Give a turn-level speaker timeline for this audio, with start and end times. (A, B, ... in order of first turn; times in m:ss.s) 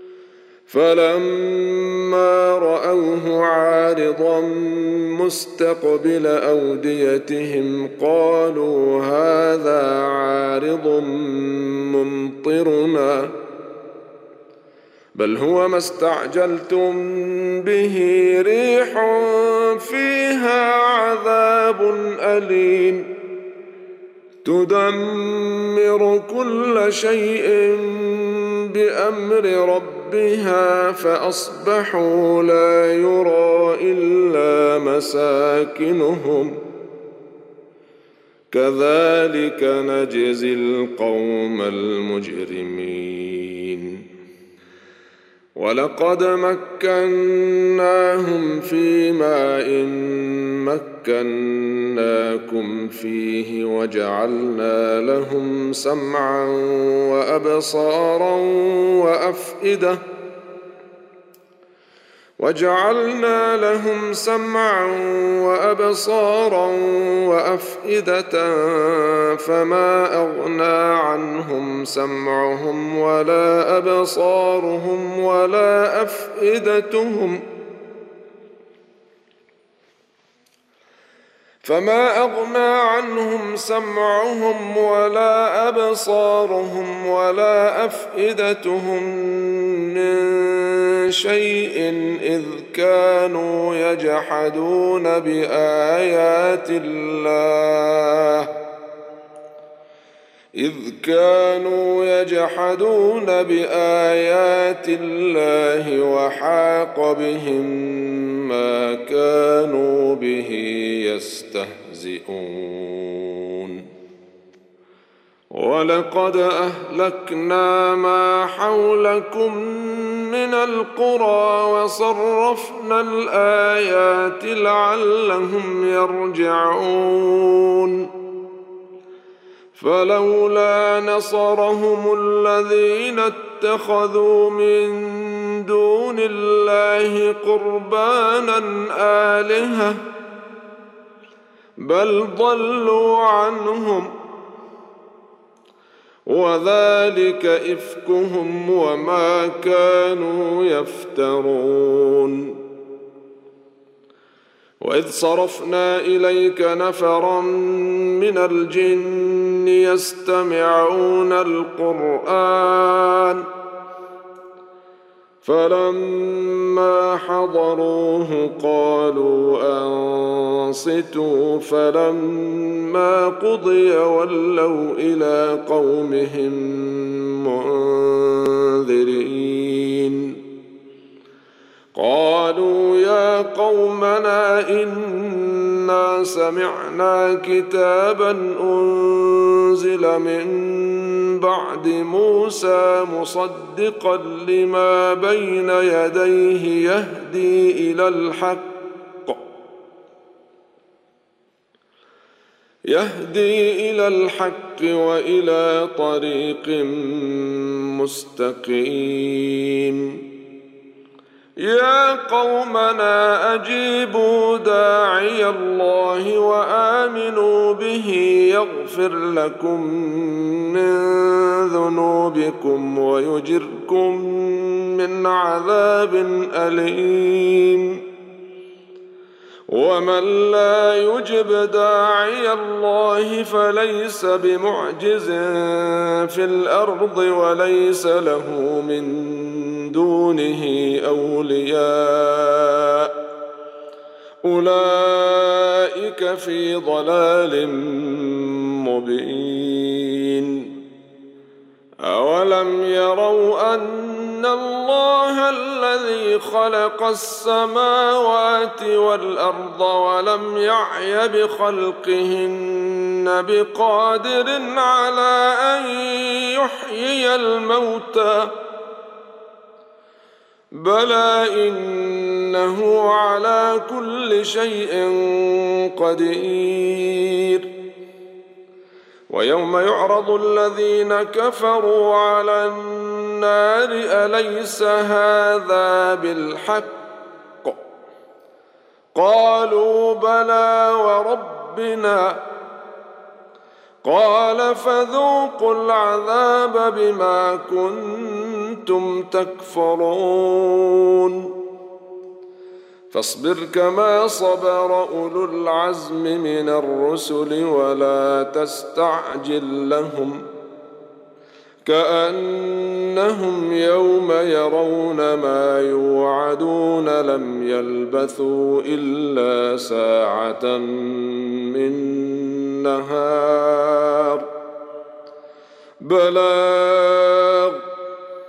0:00.7-0:13.3 A
0:15.2-0:23.1 A
0:24.4-0:36.6 A
0:38.5-0:44.0 A
0:45.6-1:00.0 A
1:02.4-1:17.4 A
1:21.6-1:38.5 A
1:40.6-1:53.8 A
1:55.5-2:08.1 A
2:09.7-2:20.0 A
2:21.8-2:24.1 A
2:26.3-2:32.6 A
2:34.8-2:43.4 A
2:45.4-3:00.4 A
3:01.9-3:18.7 A
3:22.9-3:30.1 A
3:31.6-3:48.0 A
3:49.7-4:03.1 A
4:04.4-4:10.7 A
4:12.0-4:28.5 A
4:30.7-4:37.7 A
4:39.3-4:47.0 A
4:49.1-4:52.4 A
4:54.0-5:01.5 A
5:03.1-5:10.4 A
5:11.8-5:24.5 A
5:26.0-5:27.8 A